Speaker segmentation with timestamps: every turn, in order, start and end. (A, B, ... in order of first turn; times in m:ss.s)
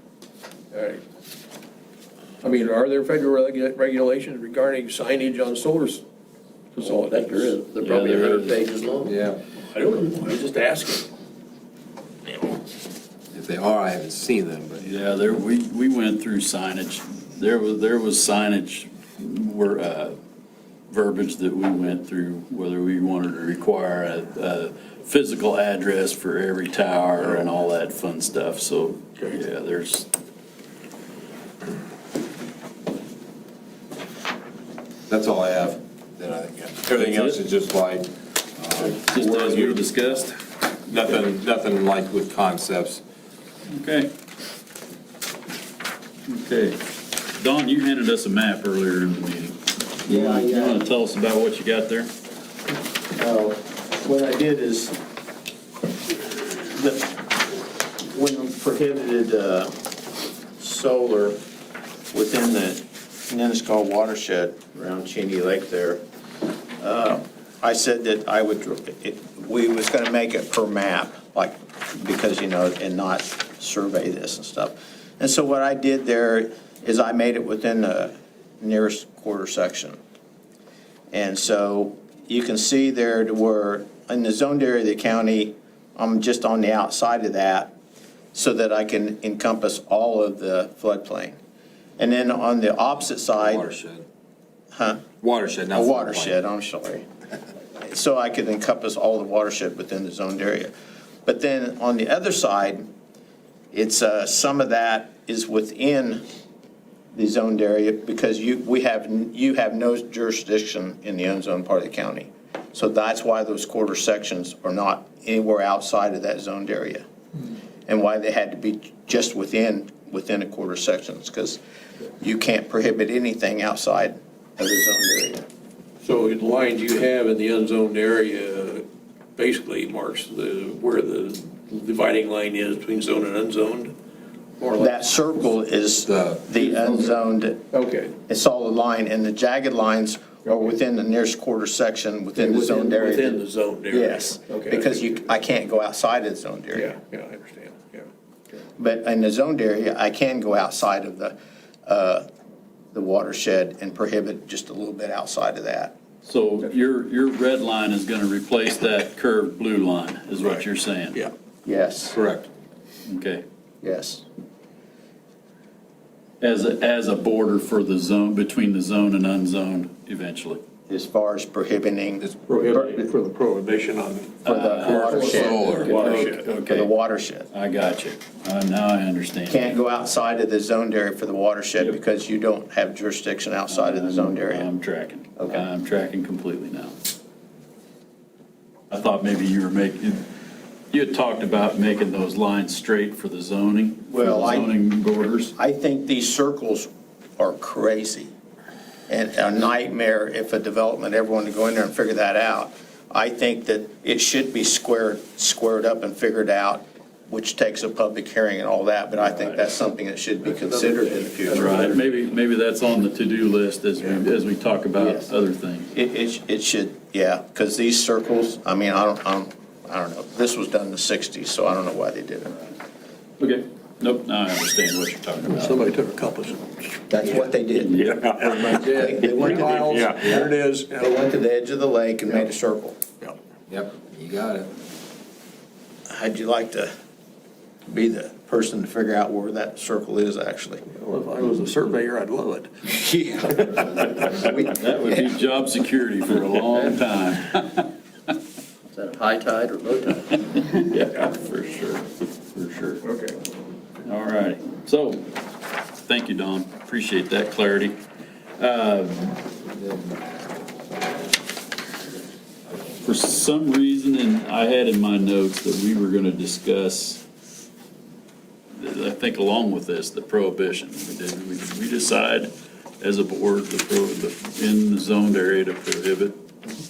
0:00.7-0:01.0 A
0:02.4-0:06.0 A
0:06.8-0:08.0 A
0:07.0-0:07.6 B
0:07.8-0:08.6 C
0:08.4-0:09.0 B
0:09.1-0:09.4 D
0:09.6-0:11.1 A
0:13.3-0:15.0 D
0:14.8-0:20.2 C
0:20.9-0:30.1 C
0:35.1-0:40.3 D
0:37.0-0:37.4 C
0:38.8-0:40.3 C
0:40.9-0:43.0 D
0:43.7-0:44.1 C
0:46.3-0:52.1 C
0:50.1-0:50.8 E
0:53.1-0:55.0 E
0:56.1-0:59.7 E
1:00.6-1:01.4 E
1:02.1-1:06.0 E
1:06.8-1:20.0 E
1:21.1-1:27.7 E
1:28.3-1:31.4 E
1:32.0-1:33.7 E
1:33.4-1:34.0 D
1:34.7-1:35.0 E
1:35.2-1:36.4 D
1:35.7-1:37.1 E
1:37.8-1:40.7 E
1:41.3-1:42.9 E
1:43.7-1:46.2 E
1:47.1-1:57.0 E
1:57.9-2:01.6 E
2:02.2-2:05.4 E
2:06.0-2:08.8 A
2:09.4-2:14.0 A
2:14.6-2:15.0 A
2:14.8-2:17.6 E
2:16.1-2:16.5 D
2:16.8-2:17.1 A
2:17.7-2:18.1 A
2:18.3-2:23.4 E
2:22.4-2:25.1 A
2:23.9-2:26.9 E
2:26.7-2:28.1 A
2:28.8-2:32.3 E
2:32.9-2:35.9 E
2:36.2-2:41.2 C
2:40.4-2:41.3 A
2:41.6-2:42.2 E
2:42.2-2:42.5 D
2:43.1-2:43.4 C
2:43.8-2:44.2 E
2:46.4-2:50.6 C
2:50.9-2:53.1 E
2:52.5-2:54.4 A
2:54.4-2:56.9 C
2:54.4-2:57.5 E
2:54.8-2:56.0 D
2:55.0-2:56.4 A
2:57.5-2:59.8 C
2:59.5-3:04.7 E
3:03.7-3:07.0 C
3:05.4-3:05.7 E
3:08.9-3:10.2 C
3:10.9-3:15.5 C
3:14.1-3:14.7 E
3:15.6-3:18.3 E
3:19.1-3:32.0 E
3:30.5-3:32.0 A
3:31.5-3:35.9 C
3:35.0-3:35.3 E
3:35.9-3:42.6 E
3:43.4-3:45.8 C
3:45.5-3:47.4 A
3:47.1-3:53.0 E
3:47.8-3:48.2 C
3:48.0-3:51.2 A
3:48.2-3:50.5 D
3:53.7-3:54.7 D
3:56.1-3:56.9 E
3:57.9-4:00.8 E
4:00.8-4:04.5 A
4:04.0-4:05.3 E
4:04.5-4:07.9 C
4:08.9-4:10.2 B
4:10.6-4:13.0 C
4:13.0-4:13.4 A
4:14.0-4:15.3 C
4:16.0-4:18.0 C
4:18.6-4:19.4 C
4:23.0-4:27.2 C
4:28.7-4:36.4 C